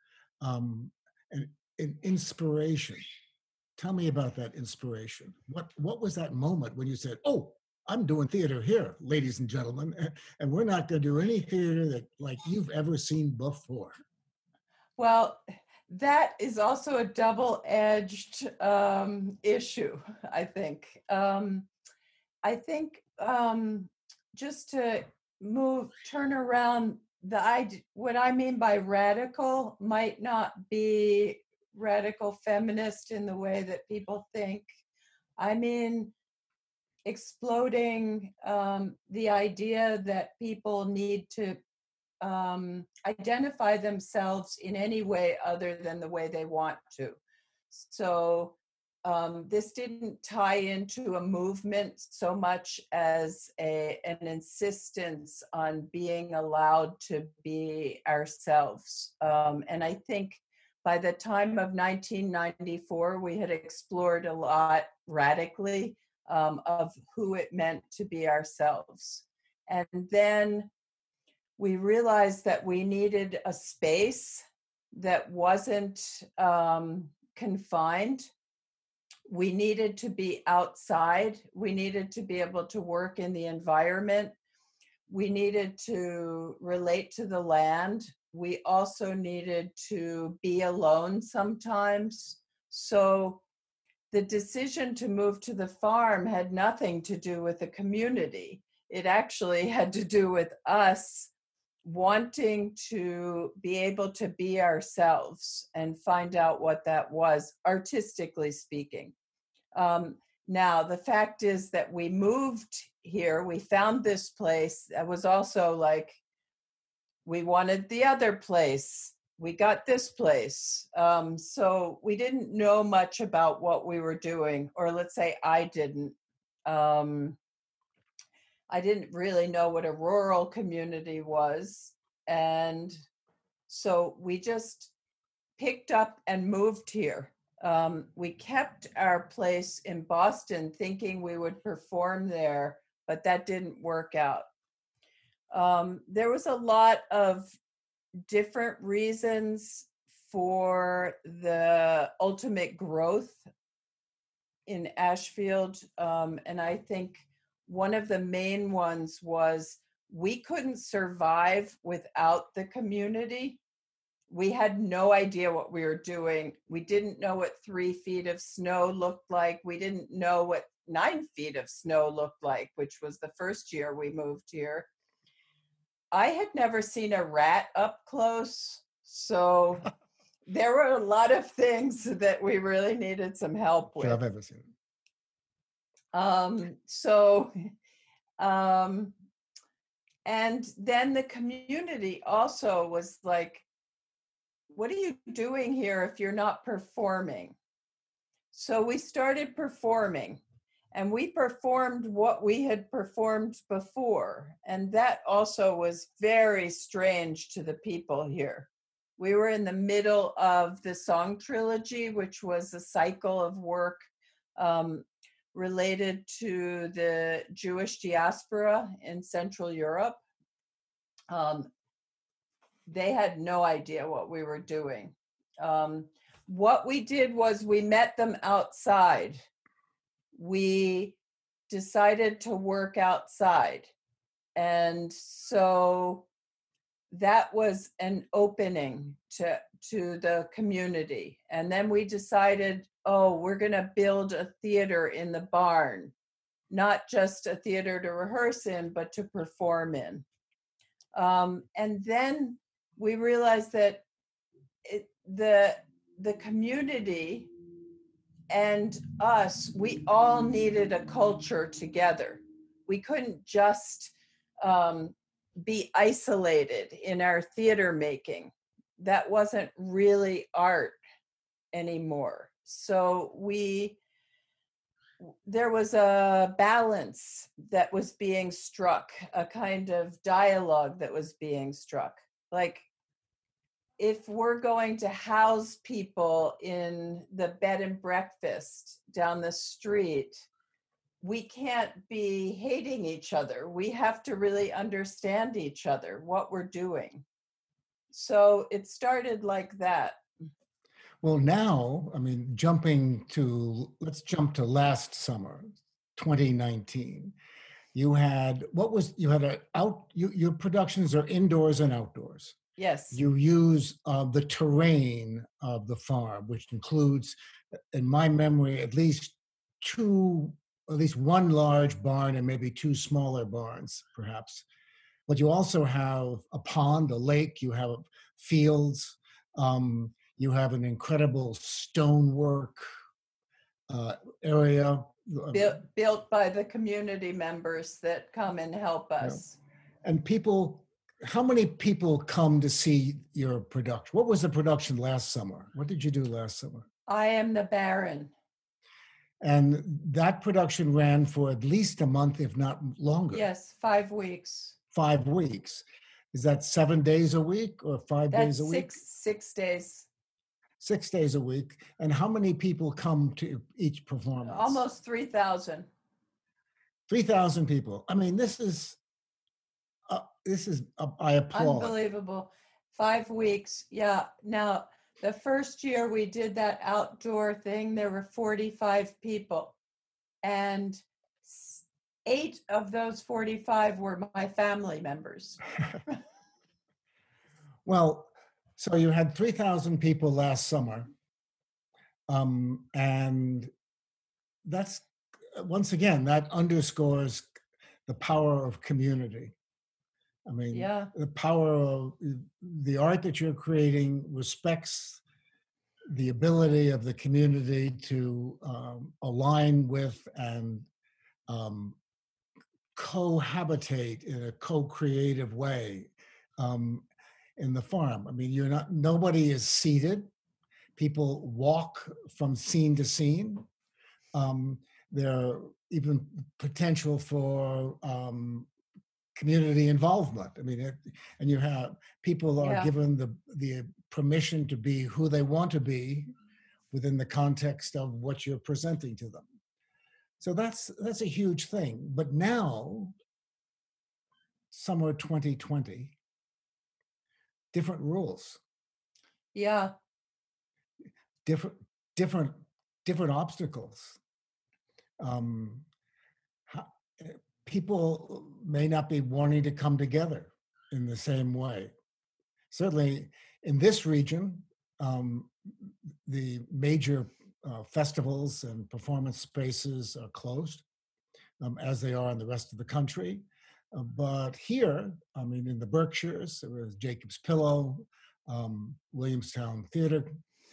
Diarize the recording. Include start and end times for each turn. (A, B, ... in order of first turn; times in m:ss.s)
0:00.4-0:03.0 A
0:03.8-0:13.9 A
0:15.0-0:21.7 B
0:22.4-0:34.6 B
0:35.4-0:36.1 B
0:37.0-0:41.6 B
0:42.2-0:47.2 B
0:47.7-1:10.7 B
1:11.6-1:18.3 B
1:19.3-1:24.3 B
1:25.1-1:33.4 B
1:34.1-1:41.3 B
1:41.8-1:49.1 B
1:49.7-1:56.2 B
1:57.2-2:07.4 B
2:08.7-2:13.0 B
2:13.7-2:14.9 B
2:15.6-2:24.5 B
2:25.5-2:27.5 B
2:28.3-2:33.4 B
2:34.7-2:43.6 B
2:44.3-2:54.9 B
2:56.1-2:59.9 B
3:00.5-3:04.2 B
3:04.0-3:04.7 A
3:06.1-3:07.7 B
3:08.4-3:09.1 B
3:10.2-3:13.6 B
3:14.7-3:17.6 B
3:18.5-3:20.4 B
3:20.9-3:40.2 B
3:41.3-3:41.7 B
3:42.9-3:49.4 B
3:50.3-3:51.2 B
3:51.7-3:53.9 B
3:54.6-3:56.3 B
3:57.1-4:06.1 B
4:06.7-4:10.2 B
4:11.1-4:14.0 B
4:14.8-4:17.5 B
4:18.5-4:31.0 B
4:31.7-4:34.0 B
4:35.2-4:42.8 B
4:44.0-4:50.5 B
4:51.2-4:57.2 B
4:58.1-5:00.2 B
5:01.2-5:07.3 A
5:07.9-5:12.6 A
5:12.8-5:13.2 B
5:13.1-5:17.3 A
5:17.9-5:24.6 A
5:25.3-5:32.9 A
5:33.9-5:35.8 A
5:35.5-5:39.6 B
5:40.0-5:46.9 A
5:47.1-5:48.3 B
5:49.4-5:53.5 A
5:53.3-5:54.8 B
5:54.9-5:59.0 A
5:58.3-6:00.1 B
6:00.8-6:04.8 A
6:04.4-6:05.9 B
6:07.1-6:09.0 A
6:10.1-6:12.0 A
6:11.5-6:19.7 B
6:20.4-6:25.6 B
6:27.8-6:31.1 A
6:32.3-6:33.7 A
6:34.6-6:37.5 A
6:38.1-6:39.5 A
6:40.4-6:45.2 A
6:40.7-6:41.1 B
6:46.1-6:50.9 A
6:51.5-6:52.0 A
6:52.9-6:57.0 A
6:57.6-7:00.3 A
7:01.0-7:03.6 A
7:04.3-7:08.7 A
7:09.4-7:16.3 A
7:12.6-7:12.9 B
7:16.9-7:19.5 A
7:20.4-7:23.1 A
7:24.7-7:26.2 A
7:27.7-7:28.6 A
7:29.5-7:29.9 B
7:31.4-7:34.2 A
7:35.2-7:35.8 A
7:36.7-7:41.9 A
7:42.7-7:50.8 A
7:51.6-8:00.3 A